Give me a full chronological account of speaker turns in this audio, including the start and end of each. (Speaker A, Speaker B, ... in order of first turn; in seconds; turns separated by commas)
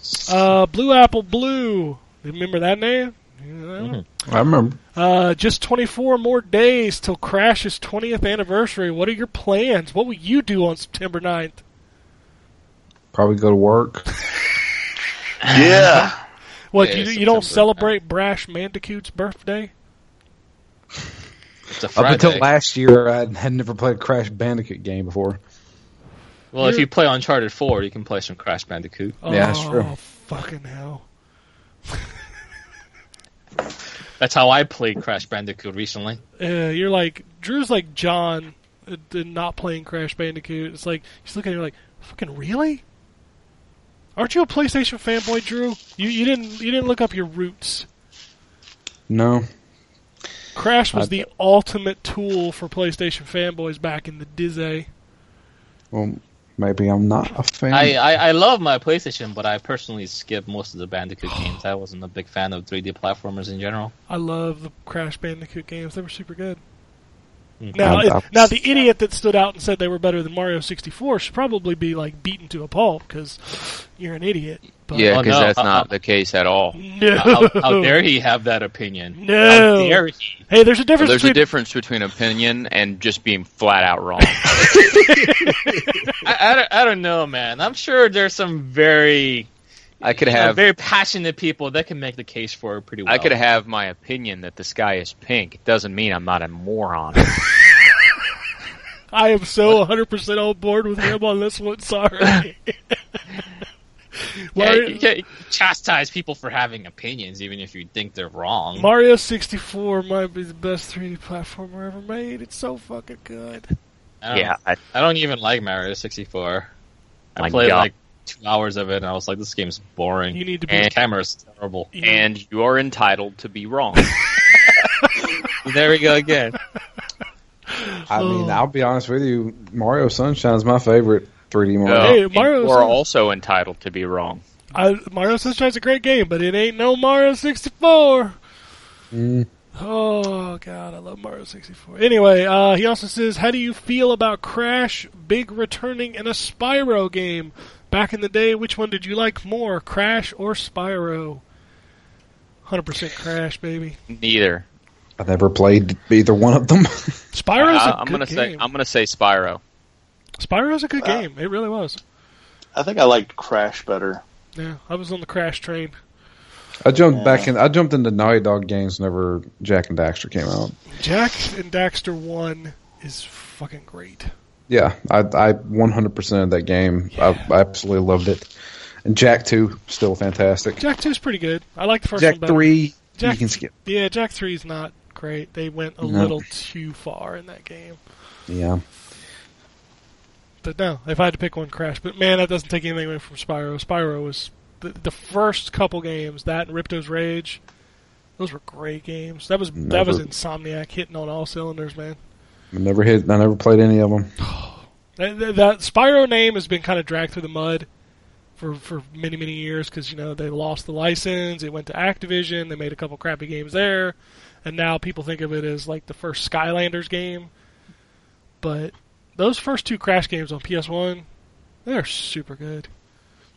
Speaker A: 0.3-4.0, Speaker B: 3.8-4.0, Speaker C: 4.3-4.8, Speaker A: 5.0-11.6, Speaker C: 13.1-14.1, Speaker D: 15.5-16.2, Speaker A: 16.7-19.7, Speaker B: 16.8-17.9, Speaker B: 21.7-22.5, Speaker C: 21.9-25.4, Speaker B: 26.5-29.2, Speaker A: 26.6-26.9, Speaker A: 29.2-31.0, Speaker C: 29.3-29.9, Speaker B: 34.2-36.2, Speaker A: 36.4-42.8, Speaker A: 44.2-47.9, Speaker C: 49.1-49.5, Speaker A: 50.5-54.9, Speaker C: 50.9-51.2, Speaker C: 55.9-58.0, Speaker B: 57.7-63.9, Speaker A: 64.1-66.6, Speaker A: 67.7-75.1, Speaker C: 67.8-68.6, Speaker E: 74.9-76.8, Speaker B: 75.1-75.9, Speaker A: 76.7-78.0, Speaker B: 77.2-80.4, Speaker A: 79.2-81.4, Speaker E: 81.0-84.7, Speaker A: 84.5-86.1, Speaker B: 86.2-89.5, Speaker E: 90.0-90.6, Speaker B: 90.0-93.3, Speaker E: 93.1-97.4, Speaker A: 99.1-103.0, Speaker A: 104.5-105.0, Speaker B: 104.6-108.9, Speaker A: 108.8-113.7, Speaker B: 114.2-116.7, Speaker E: 114.3-114.8, Speaker E: 117.4-117.9, Speaker B: 117.4-121.9, Speaker A: 120.3-120.9, Speaker A: 121.9-122.3, Speaker E: 122.0-124.2, Speaker B: 125.6-126.6, Speaker A: 127.7-128.6, Speaker C: 128.1-132.2, Speaker E: 131.8-134.4, Speaker A: 131.9-133.0, Speaker A: 134.7-138.4, Speaker C: 139.1-139.5, Speaker A: 139.8-151.4, Speaker A: 152.7-154.0, Speaker E: 154.1-154.7, Speaker C: 155.2-157.2, Speaker A: 157.3-158.6, Speaker E: 157.6-159.6, Speaker A: 160.4-162.0, Speaker D: 162.8-164.2, Speaker A: 164.6-166.0, Speaker C: 166.8-170.8, Speaker D: 167.1-167.5, Speaker A: 170.9-174.3, Speaker C: 174.7-178.5, Speaker A: 177.2-177.5, Speaker C: 179.1-180.8, Speaker A: 180.8-188.0, Speaker C: 182.2-183.7, Speaker C: 186.0-186.4, Speaker C: 188.5-188.8, Speaker A: 190.6-197.6, Speaker A: 198.4-202.2, Speaker C: 199.8-200.3, Speaker C: 202.7-204.3, Speaker A: 204.4-207.9, Speaker A: 208.6-217.5, Speaker A: 218.6-221.3, Speaker A: 221.8-222.9